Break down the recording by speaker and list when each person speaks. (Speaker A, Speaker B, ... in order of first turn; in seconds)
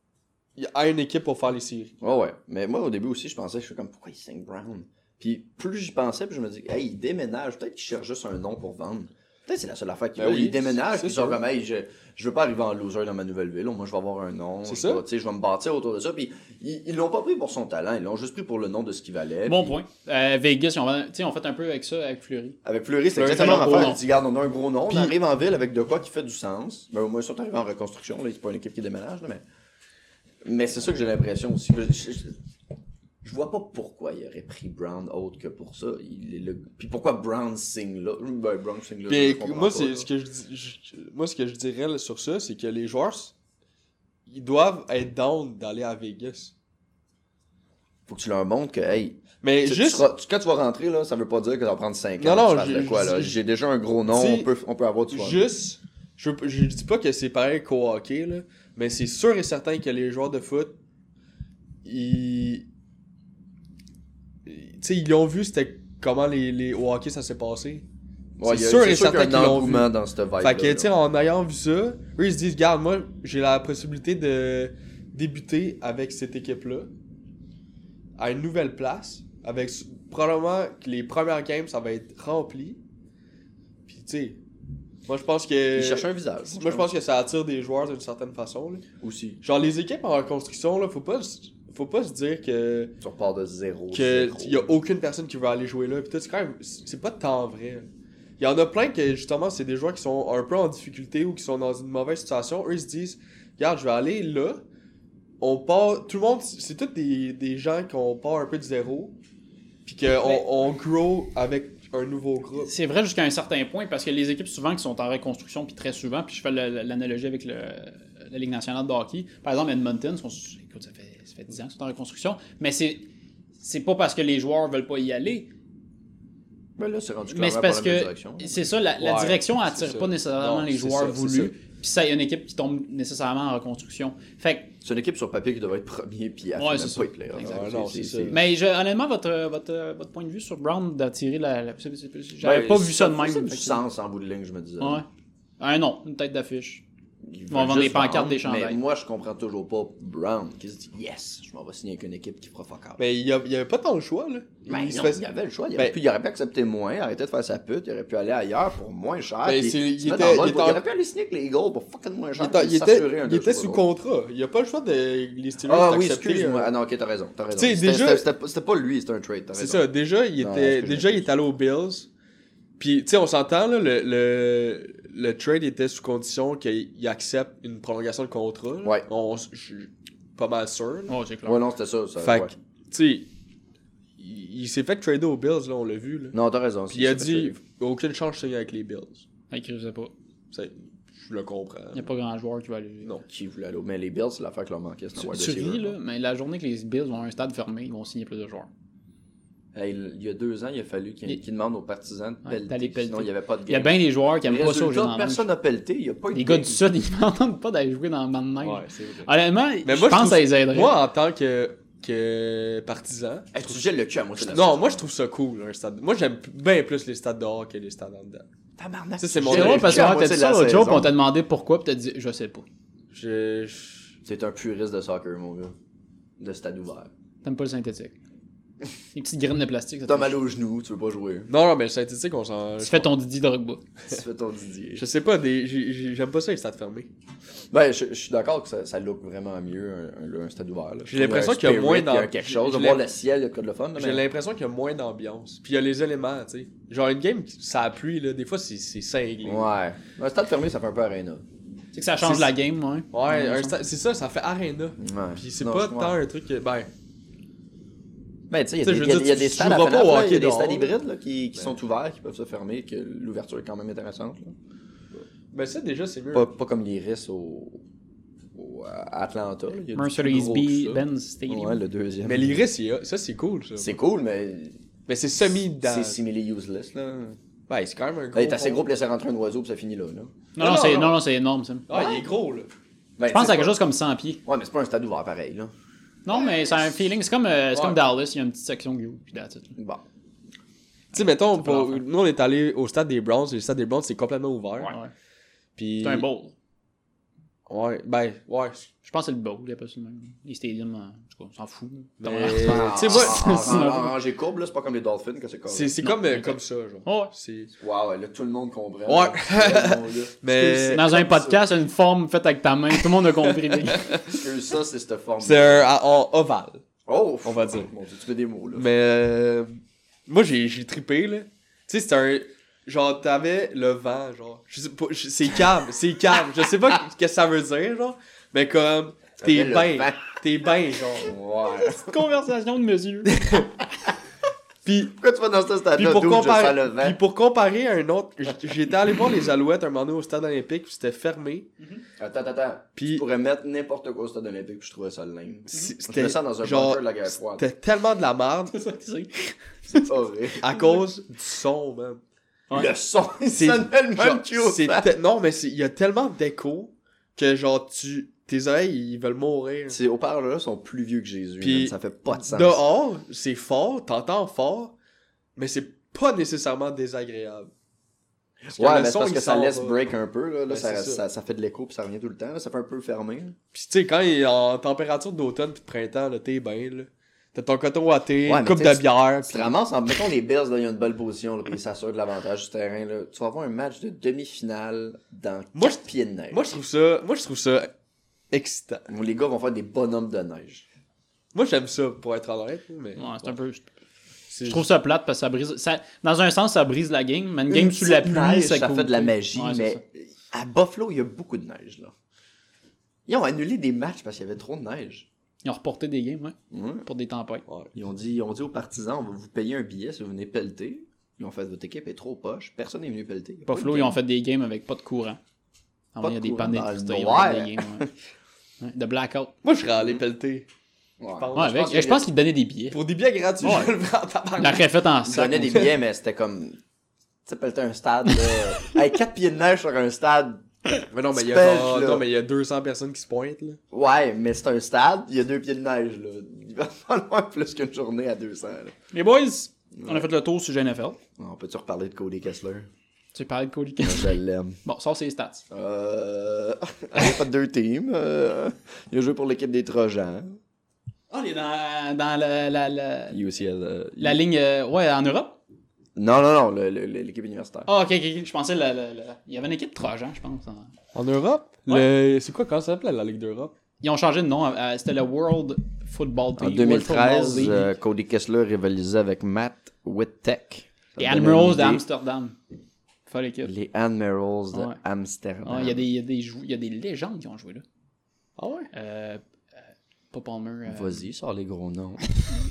Speaker A: 0.6-1.9, 10.2-11.4, 14.7-15.0, 23.1-24.0, 39.1-43.3, 44.3-46.5, 49.4-50.1, 52.2-53.4, 54.1-54.5, 55.1-60.8, 61.9-62.7, 64.5-67.9, 68.4-76.9, 78.2-82.8, 83.9-84.4, 85.1-88.8, 89.4-93.0, 93.9-97.9, 98.4-104.6, 105.4-109.2, 109.9-112.7, 129.0-131.5, 137.4-138.4, 153.0-155.2, 159.4-160.8, 162.4-166.7, 167.6-168.2, 169.5-172.1, 172.8-181.2, 182.2-183.3, 184.2-186.4, 186.9-189.2, 190.5-192.1, 208.6-209.3, 209.8-213.8, 214.4-218.5, 219.2-220.1, 223.1-224.1, 231.5-233.1, 235.0-237.1, 241.1-243.0, 244.0-249.7, 252.2-252.5, 253.1-256.9, 258.8-260.9, 265.5-266.5, 272.2-274.0, 275.1-276.2, 277.7-278.8, 280.6-281.2, 281.9-282.7, 287.7-288.0, 291.1-294.9, 295.8-296.3, 297.7-298.9, 302.2-303.9, 305.7-307.7, 309.1-311.1, 313.0-314.4, 315.4-316.8, 317.4-317.9, 318.8-331.3, 334.9-335.1, 335.9-341.7, 343.0-343.2, 345.7-348.8, 350.6-352.2, 353.5-360.0, 361.6-364.9, 365.6-367.7, 368.7-370.0, 370.7-371.2, 373.7-379.8, 385.7-387.9, 388.5-389.1, 391.5-393.5, 394.5-394.9, 407.7-407.9, 419.6-420.7, 421.4-422.2, 422.9-424.9, 431.1-433.8, 461.1-463.7, 478.6-478.9
Speaker B: 2.0-19.8, 22.6-29.4, 30.4-32.4, 33.2-40.1, 48.1-55.5, 68.4-70.9, 85.8-86.9, 89.0-89.4, 93.0-94.7, 126.8-128.6, 134.8-138.4, 142.4-145.0, 147.2-153.0, 154.7-163.8, 165.7-169.8, 170.4-171.3, 181.4-182.5, 186.3-187.6, 193.3-195.9, 199.7-206.8, 213.5-215.0, 218.8-221.1, 224.2-225.7, 226.4-227.1, 230.1-231.5, 234.1-235.1, 237.7-244.2, 249.4-251.4, 255.0-256.1, 258.5-264.6, 266.3-267.8, 268.6-272.6, 273.8-274.8, 275.8-277.4, 278.3-280.4, 281.9-282.2, 283.2-283.8, 284.4-285.7, 289.8-290.0, 302.6-305.9, 307.8-311.6, 314.3-315.9, 317.1-318.9, 329.4-330.3, 331.2-332.1, 335.1-337.2, 342.2-347.6, 349.9-350.8, 352.7-355.1, 359.9-362.8, 368.6-373.6, 378.5-386.8, 389.1-390.9, 397.7-402.1, 403.3-405.3, 406.7-407.1, 407.9-414.2, 416.2-418.1, 421.2-421.5, 425.2-426.8, 427.5-432.2, 433.9-438.9, 440.0-440.3, 441.4-442.9, 444.0-444.8, 445.7-450.6, 453.3-454.4, 456.2-457.9, 466.6-472.0, 473.6-476.0, 480.9-482.2
Speaker C: 19.4-22.6, 23.2-24.0, 110.2-110.5, 112.6-123.1, 123.6-125.5, 127.3-134.7, 136.6-137.5, 138.3-143.8, 144.8-145.1, 145.6-146.8, 147.5-148.8, 181.1-181.6, 189.5-190.1, 191.9-193.2, 195.2-198.7, 202.4-205.5, 206.3-211.0, 219.5-222.7, 227.4-228.1, 229.1-230.4, 232.8-233.8, 251.9-253.8, 269.9-271.8, 280.6-281.9, 283.3-284.4, 286.2-289.8, 291.1-292.0, 294.8-295.1, 296.0-296.5, 299.1-304.1, 306.0-307.3, 310.9-314.1, 331.8-333.4, 348.7-350.1, 393.2-393.9, 394.6-400.0, 405.6-407.6, 413.7-415.4, 416.1-418.1, 418.8-419.5, 421.6-423.0, 423.6-423.9, 424.6-425.9, 439.1-441.2, 443.3-445.6, 451.3-453.4, 454.2-455.6, 457.9-460.9, 464.0-467.9, 471.2-472.6, 473.3-473.7, 474.7-475.0, 475.6-477.8, 478.9-479.4, 480.3-481.2